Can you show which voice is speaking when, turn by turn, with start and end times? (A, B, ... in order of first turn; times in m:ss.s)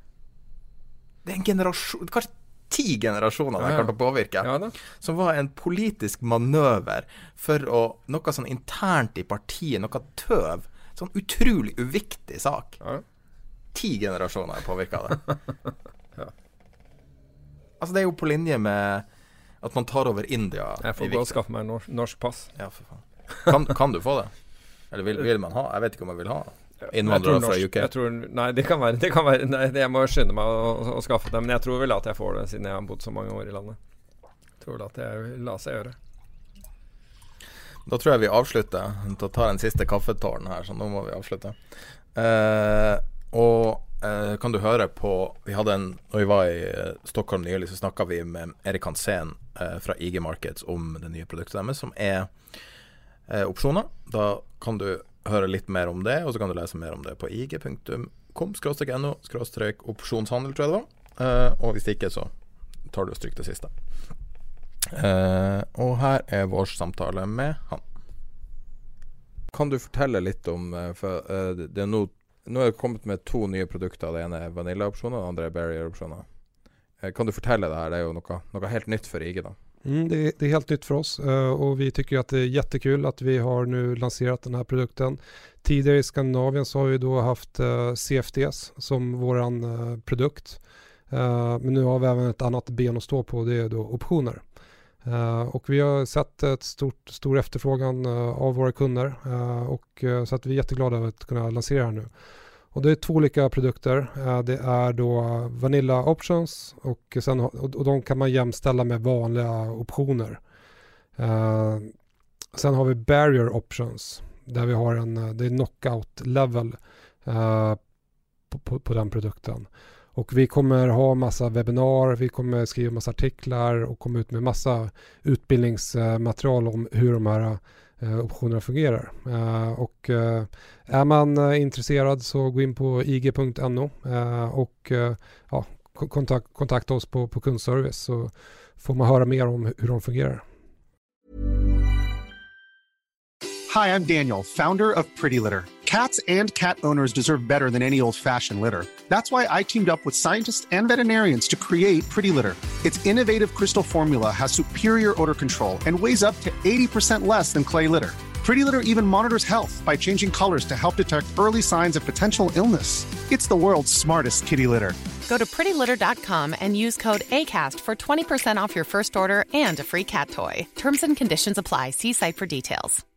0:01.2-0:12.8 A
0:03.6-0:04.8 B
0:13.7-0:15.2 A
0:17.8-0:19.1 A
0:19.6-0:21.4 A
0:20.8-0:22.5 B
0:22.6-0:24.3 A
0:24.9-0:27.9 A
0:26.8-0:33.8 B
0:34.6-0:36.0 B
0:37.9-0:41.6 A
0:42.1-0:52.4 A
0:53.3-1:02.3 A
1:02.9-1:03.7 A
1:04.8-1:07.8 A
1:09.5-1:16.2 A
1:17.0-1:19.6 A
1:19.8-1:30.6 C
1:31.1-1:34.4 C
1:35.0-1:42.1 C
1:42.7-1:50.4 C
1:51.2-1:51.9 C
1:52.5-1:57.8 C
1:58.5-2:20.4 C
2:23.7-2:45.1 D
2:45.3-2:53.0 E